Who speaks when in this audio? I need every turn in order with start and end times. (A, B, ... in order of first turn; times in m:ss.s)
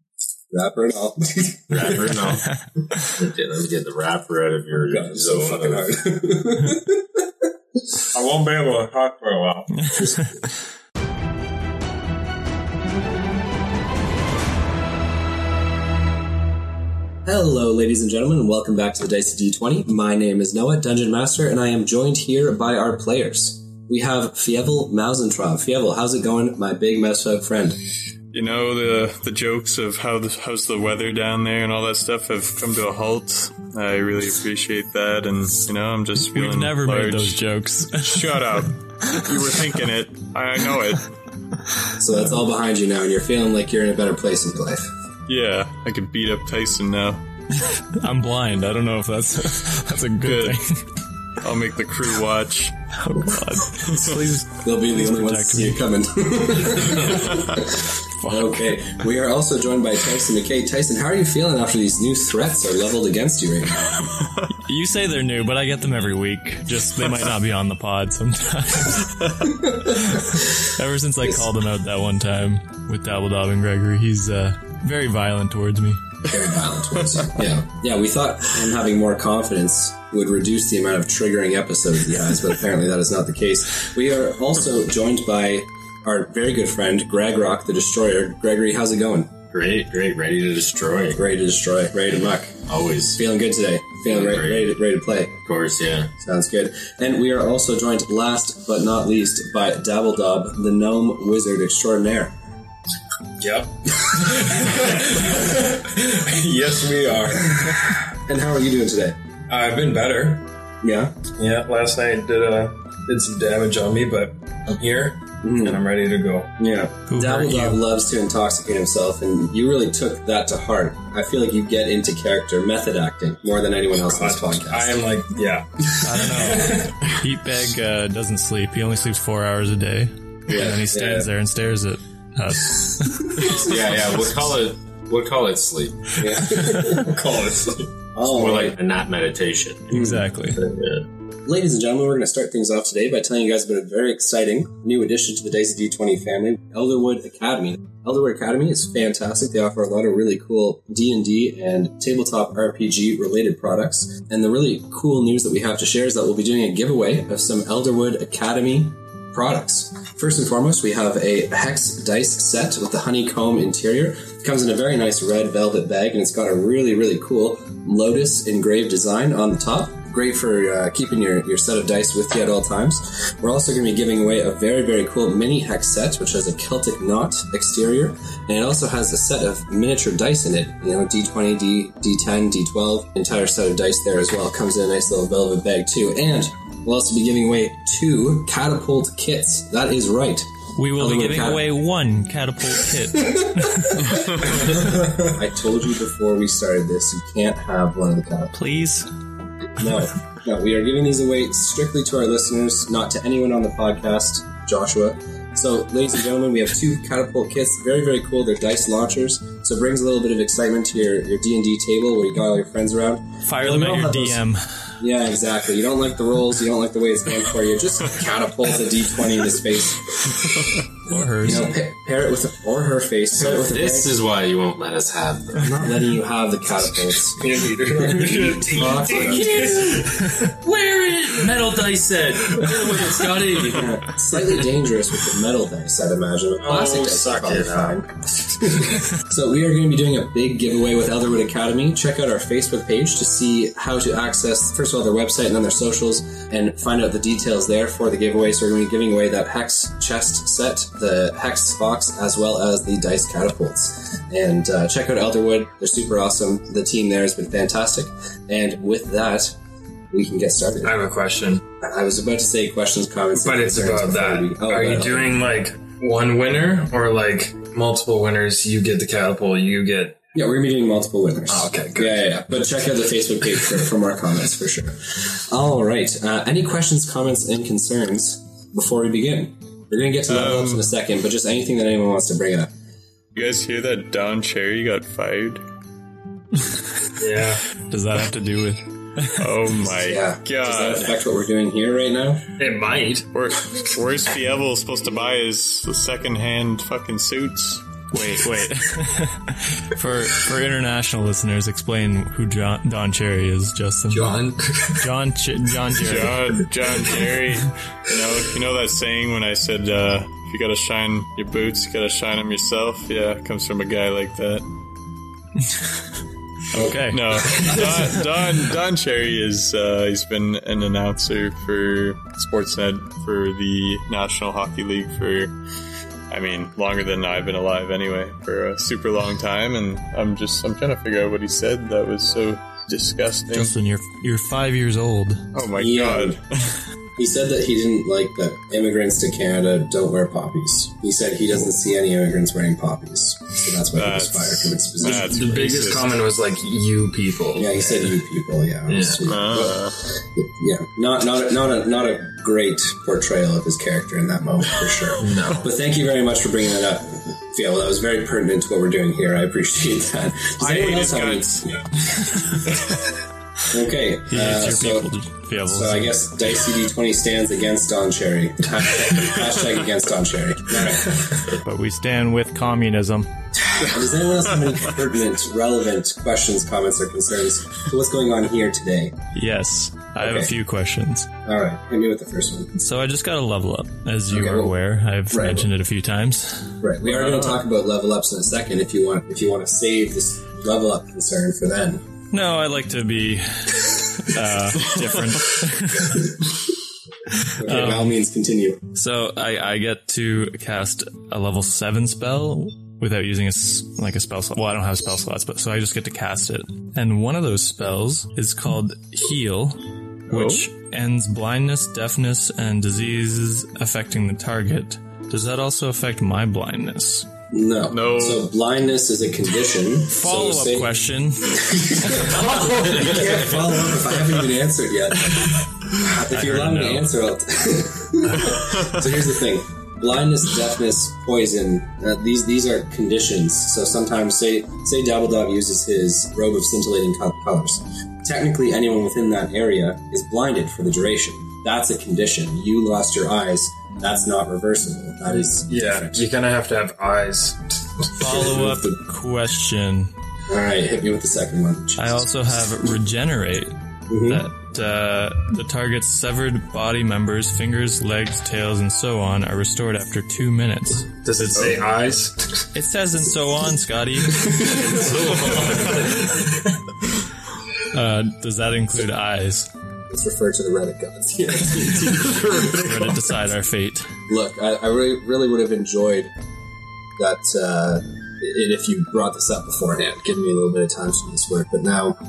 0:00.5-0:02.0 A
0:01.7-0:05.9 B
0:04.8-0:07.2 A
0:08.1-0:09.9 C
0:10.0-0:10.3 A
0:17.2-0:27.8 A
0:28.3-0:37.4 D
0:36.2-0:38.7 E
0:37.9-0:41.1 D
0:42.0-0:44.9 A
0:45.3-0:47.2 D
0:47.8-0:50.8 E
0:50.2-0:50.6 D
0:51.4-0:52.7 D
0:53.0-0:55.8 E
0:54.5-1:04.3 A
0:58.2-0:58.6 E
1:04.5-1:16.0 E
1:09.6-1:10.0 A
1:16.2-1:29.4 A
1:29.5-1:31.2 B
1:31.1-1:32.6 A
1:32.7-1:33.2 B
1:33.2-1:35.4 A
1:34.0-1:34.8 B
1:35.4-1:36.1 B
1:36.2-1:42.4 A
1:43.4-1:48.0 C
1:47.5-1:49.2 A
1:49.5-1:50.4 C
1:50.8-1:51.2 A
1:51.4-1:56.5 C
1:55.4-1:55.8 A
1:56.6-2:05.0 A
1:57.1-1:57.8 E
2:04.0-2:07.0 C
2:06.0-2:13.5 E
2:10.5-2:11.3 A
2:13.5-2:16.3 B
2:16.2-2:17.2 A
2:16.6-2:17.9 C
2:18.2-2:18.8 A
2:18.2-2:21.0 B
2:19.9-2:20.2 A
2:19.9-2:20.6 E
2:21.5-3:11.7 A
3:10.8-3:14.2 E
3:13.6-3:18.5 A
3:18.5-3:19.1 E
3:19.8-3:34.4 A
3:33.4-3:34.8 E
3:35.0-3:40.8 A
3:41.1-3:41.7 E
3:41.3-3:44.1 A
3:43.4-3:45.8 B
3:45.6-3:47.5 A
3:47.4-3:50.5 C
3:48.1-3:50.2 A
3:49.1-3:54.1 B
3:53.5-4:19.6 A
3:56.6-3:58.0 C
4:20.1-4:21.0 A
4:20.8-4:21.6 C
4:21.8-4:25.4 A
4:23.4-4:30.2 C
4:30.4-4:42.7 A
4:31.5-4:32.3 C
4:40.3-4:40.9 D
4:43.4-4:45.6 D
4:47.2-4:47.6 C
4:47.8-4:49.4 E
4:49.4-4:51.2 D
4:49.9-4:52.5 A
4:52.6-4:53.3 C
4:53.3-4:57.8 D
4:58.1-5:04.4 E
5:04.1-5:05.1 C
5:04.9-5:06.6 E
5:06.0-5:14.6 D
5:16.7-5:18.2 E
5:16.8-5:18.0 A
5:17.0-5:25.5 D
5:26.3-5:33.8 D
5:33.5-5:35.5 E
5:35.5-5:36.4 D
5:35.8-5:36.4 A
5:37.2-5:45.5 A
5:43.9-5:46.2 D
5:45.0-5:48.0 C
5:47.6-6:02.5 A
5:48.9-5:49.2 C
5:49.2-5:50.0 D
5:55.2-5:55.7 C
6:00.6-6:01.8 D
6:03.7-6:05.1 A
6:04.3-6:06.1 E
6:05.7-6:11.4 A
6:11.5-6:13.3 E
6:13.6-6:19.2 A
6:19.3-6:21.3 E
6:20.2-6:20.5 A
6:21.4-6:22.7 A
6:22.8-6:27.4 E
6:24.3-6:24.7 A
6:25.3-6:25.7 A
6:26.8-6:32.0 A
6:32.3-6:36.4 E
6:37.4-6:38.2 E
6:37.6-6:38.8 A
6:38.9-6:57.3 E
6:50.3-6:50.6 D
6:57.5-7:00.9 A
6:57.9-6:58.5 D
7:00.1-7:02.9 E
7:01.6-7:26.3 A
7:06.2-7:07.1 E
7:25.3-7:28.1 C
7:28.1-7:30.1 E
7:28.2-7:29.0 A
7:30.5-7:32.7 A
7:32.0-7:41.8 E
7:34.1-7:34.5 A
7:41.2-7:42.7 C
7:42.7-7:44.8 E
7:44.5-7:46.4 B
7:45.5-7:46.8 C
7:47.9-7:49.7 E
7:50.1-7:52.6 A
7:52.7-7:54.1 E
7:54.3-7:56.3 A
7:57.2-8:02.2 A